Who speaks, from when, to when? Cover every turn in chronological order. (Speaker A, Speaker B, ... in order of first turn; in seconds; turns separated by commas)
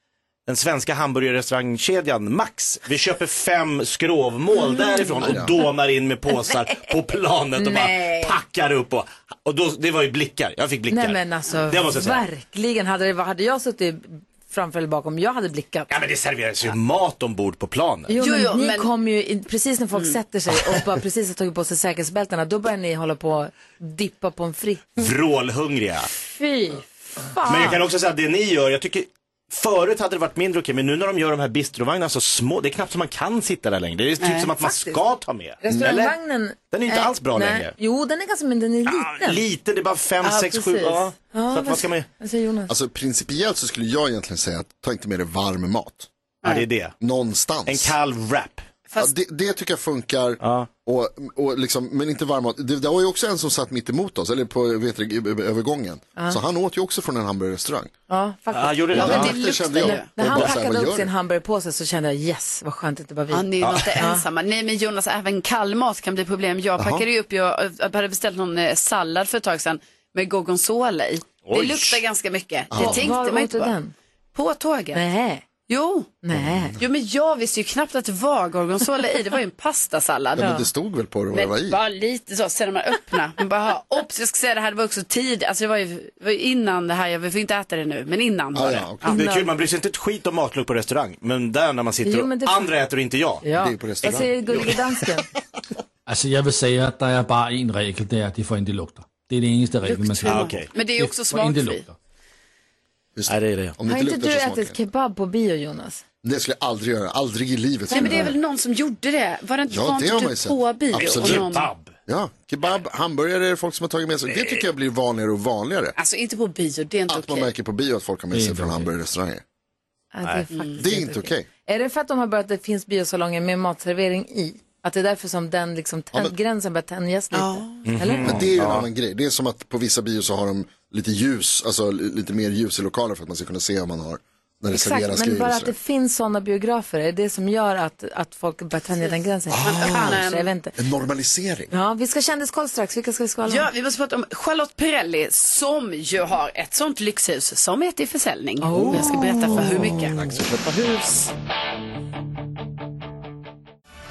Speaker A: 0.5-12.2, Speaker B: 5.2-5.5, Speaker C: 7.6-8.3, Speaker C: 10.9-15.9, Speaker A: 15.9-18.1, Speaker C: 18.1-25.0, Speaker D: 18.2-18.9, Speaker A: 25.0-26.1, Speaker C: 26.2-27.8, Speaker A: 27.4-36.2, Speaker D: 34.2-34.5, Speaker C: 34.6-35.0, Speaker C: 35.6-39.4, Speaker A: 36.7-37.7, Speaker A: 38.9-42.1, Speaker D: 40.2-41.0, Speaker C: 41.3-42.7, Speaker B: 42.7-46.1, Speaker A: 46.4-47.0, Speaker B: 47.0-48.0, Speaker A: 47.7-48.7, Speaker B: 49.0-57.9, Speaker A: 50.4-50.7, Speaker C: 58.1-64.2, Speaker A: 58.5-59.4, Speaker D: 58.9-60.1, Speaker B: 58.9-61.1, Speaker D: 63.3-73.8, Speaker A: 63.6-63.9, Speaker B: 66.8-67.0, Speaker A: 71.5-72.0, Speaker B: 72.7-73.1, Speaker C: 72.8-73.9, Speaker D: 74.3-75.0, Speaker C: 74.9-75.4, Speaker D: 75.7-76.1, Speaker C: 76.2-76.8, Speaker B: 76.3-76.8, Speaker D: 76.8-80.7, Speaker B: 80.3-81.8, Speaker D: 81.3-89.2, Speaker B: 88.5-89.2, Speaker C: 89.0-89.5, Speaker A: 89.1-93.5, Speaker C: 92.0-92.7, Speaker C: 93.4-95.3, Speaker B: 93.6-94.7, Speaker E: 96.1-102.0, Speaker D: 99.8-101.8, Speaker A: 100.3-100.7, Speaker B: 103.2-104.8, Speaker A: 103.3-103.8, Speaker C: 103.9-106.0, Speaker B: 106.2-108.3, Speaker D: 107.9-111.7, Speaker C: 107.9-108.3, Speaker B: 109.7-111.5, Speaker A: 111.0-111.9, Speaker B: 112.1-116.0, Speaker A: 114.3-114.6, Speaker D: 116.0-117.5, Speaker B: 117.1-119.4, Speaker E: 118.3-118.9, Speaker C: 120.1-128.4, Speaker D: 120.5-120.8, Speaker B: 120.8-121.5, Speaker D: 127.3-127.8, Speaker A: 127.9-128.9, Speaker B: 128.2-135.7, Speaker C: 134.7-140.7, Speaker B: 139.5-140.2, Speaker D: 139.6-140.5, Speaker B: 140.8-141.7, Speaker C: 141.7-143.7, Speaker D: 143.5-150.2, Speaker C: 148.6-149.7, Speaker B: 148.8-150.6, Speaker A: 150.3-151.2